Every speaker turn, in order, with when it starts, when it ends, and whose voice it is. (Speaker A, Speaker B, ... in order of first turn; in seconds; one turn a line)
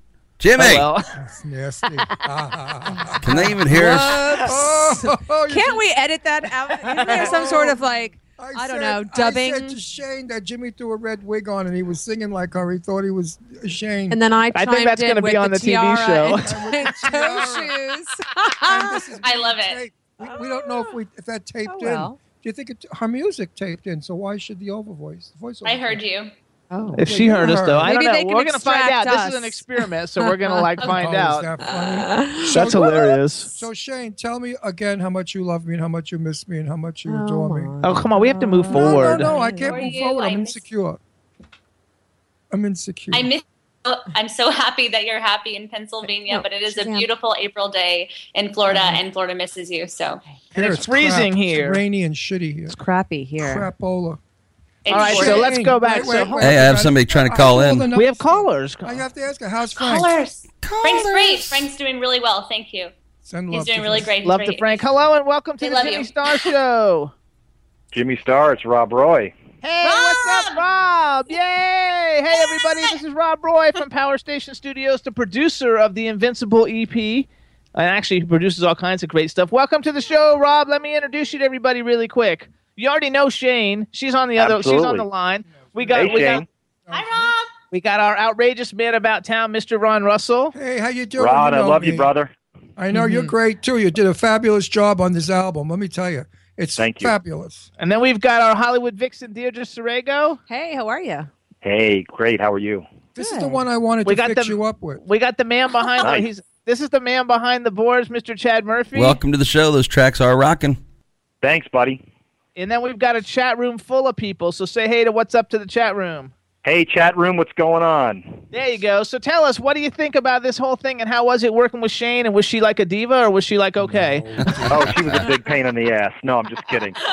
Speaker A: 0.4-0.9
Speaker B: 0.6-1.1
Speaker C: 1.2-5.8
Speaker D: 3.0-9.8
Speaker A: 3.2-4.2
Speaker C: 6.7-14.2
Speaker B: 7.1-7.5
Speaker D: 14.1-19.1
Speaker B: 14.5-16.6
Speaker C: 16.4-17.8
Speaker C: 18.6-26.0
Speaker E: 19.2-19.8
Speaker D: 20.2-20.9
Speaker D: 21.7-22.2
Speaker E: 25.6-26.3
Speaker D: 26.7-30.6
Speaker B: 26.9-31.5
Speaker C: 27.0-27.9
Speaker C: 30.8-37.7
Speaker D: 31.6-33.1
Speaker B: 32.5-33.5
Speaker D: 37.1-40.0
Speaker B: 37.8-39.3
Speaker C: 38.7-41.0
Speaker E: 39.6-40.6
Speaker C: 42.5-43.3
Speaker E: 43.1-50.2
Speaker D: 46.3-47.0
Speaker D: 48.7-49.0
Speaker B: 50.5-51.8
Speaker C: 50.5-52.8
Speaker D: 52.7-53.6
Speaker C: 53.4-54.2
Speaker E: 54.9-55.6
Speaker C: 54.9-61.7
Speaker B: 54.9-56.4
Speaker A: 56.4-57.9
Speaker B: 57.9-59.0
Speaker E: 59.8-62.9
Speaker C: 63.2-64.1
Speaker E: 63.5-64.8
Speaker B: 64.2-67.1
Speaker E: 65.6-66.5
Speaker F: 67.9-69.3
Speaker B: 69.6-86.4
Speaker E: 69.8-70.6
Speaker E: 72.3-72.9
Speaker F: 84.4-85.0
Speaker C: 85.5-86.1
Speaker F: 85.9-86.5
Speaker C: 86.8-87.3
Speaker E: 86.9-87.5
Speaker B: 87.7-90.5
Speaker C: 90.5-92.1
Speaker F: 91.2-92.3
Speaker C: 92.8-97.7
Speaker D: 92.9-93.3
Speaker F: 96.8-97.1
Speaker B: 97.8-100.4
Speaker D: 100.5-101.3
Speaker F: 101.6-102.8
Speaker C: 103.1-105.0
Speaker D: 103.2-103.6
Speaker B: 104.0-109.2
Speaker F: 106.0-106.3
Speaker A: 108.9-110.8
Speaker F: 111.4-112.0
Speaker B: 112.5-116.3
Speaker F: 116.6-118.4
Speaker B: 118.5-124.5
Speaker C: 124.4-124.9
Speaker F: 124.7-127.0